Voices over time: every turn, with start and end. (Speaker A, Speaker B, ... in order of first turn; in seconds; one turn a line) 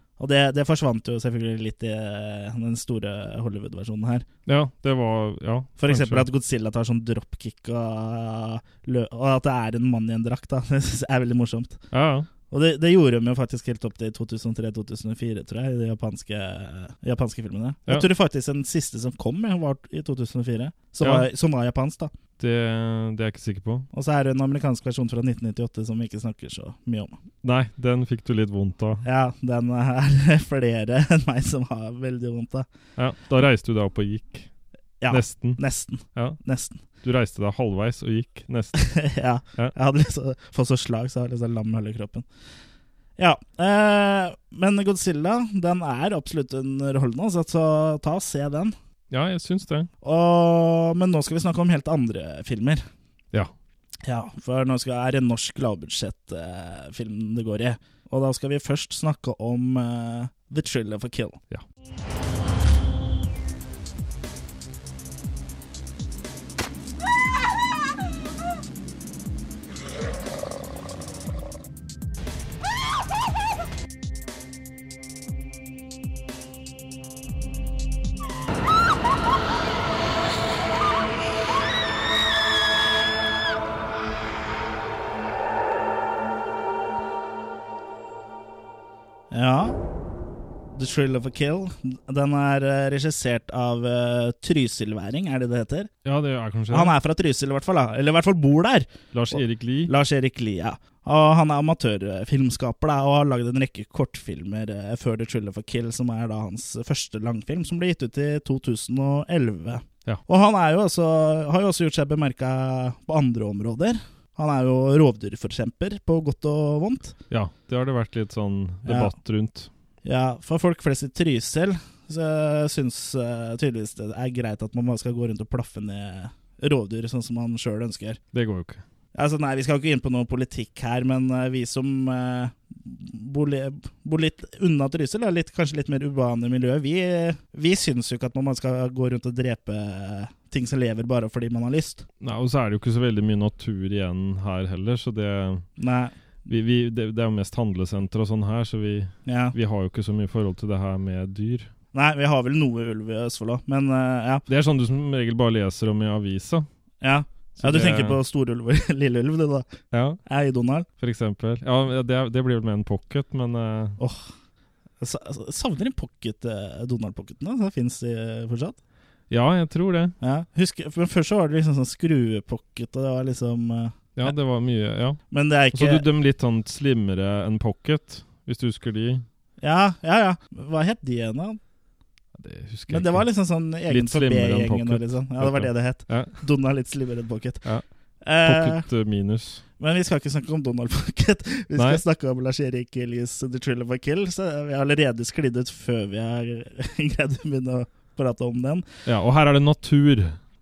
Speaker A: 0.2-4.2
Speaker B: 4.5-6.2
Speaker A: 5.8-11.8
Speaker B: 11.9-12.3
Speaker A: 12.5-22.1
Speaker B: 21.0-21.3
Speaker B: 22.4-23.9
Speaker A: 23.9-27.1
Speaker B: 27.4-29.0
Speaker A: 29.0-32.6
Speaker B: 33.0-34.5
Speaker A: 35.0-36.8
Speaker B: 35.1-35.6
Speaker B: 37.0-38.7
Speaker A: 38.7-42.2
Speaker A: 43.2-48.7
Speaker B: 49.1-49.9
Speaker A: 50.0-52.8
Speaker A: 54.0-61.4
Speaker A: 89.3-89.8
Speaker A: 90.7-95.9
Speaker B: 96.0-96.9
Speaker A: 96.7-117.2
Speaker B: 99.1-99.9
Speaker B: 117.3-119.7
Speaker A: 118.8-119.1
Speaker A: 120.0-128.2
Speaker B: 128.3-128.8
Speaker A: 129.1-142.0
Speaker B: 142.2-145.7
Speaker A: 145.8-146.1
Speaker B: 146.4-151.7
Speaker A: 149.2-149.5
Speaker A: 151.9-154.4
Speaker B: 154.5-156.7
Speaker A: 157.0-159.7
Speaker B: 157.6-158.2
Speaker B: 159.9-160.2
Speaker A: 160.2-160.9
Speaker B: 161.0-164.0
Speaker A: 164.0-164.3
Speaker A: 165.0-168.8
Speaker B: 169.3-170.1
Speaker A: 170.2-174.3
Speaker B: 174.2-175.2
Speaker A: 175.3-176.1
Speaker B: 175.7-179.2
Speaker A: 179.6-181.6
Speaker B: 182.3-183.3
Speaker A: 182.9-187.6
Speaker B: 183.9-186.4
Speaker A: 188.2-188.9
Speaker B: 188.4-189.6
Speaker A: 189.8-198.8
Speaker B: 191.7-192.0
Speaker B: 199.1-200.4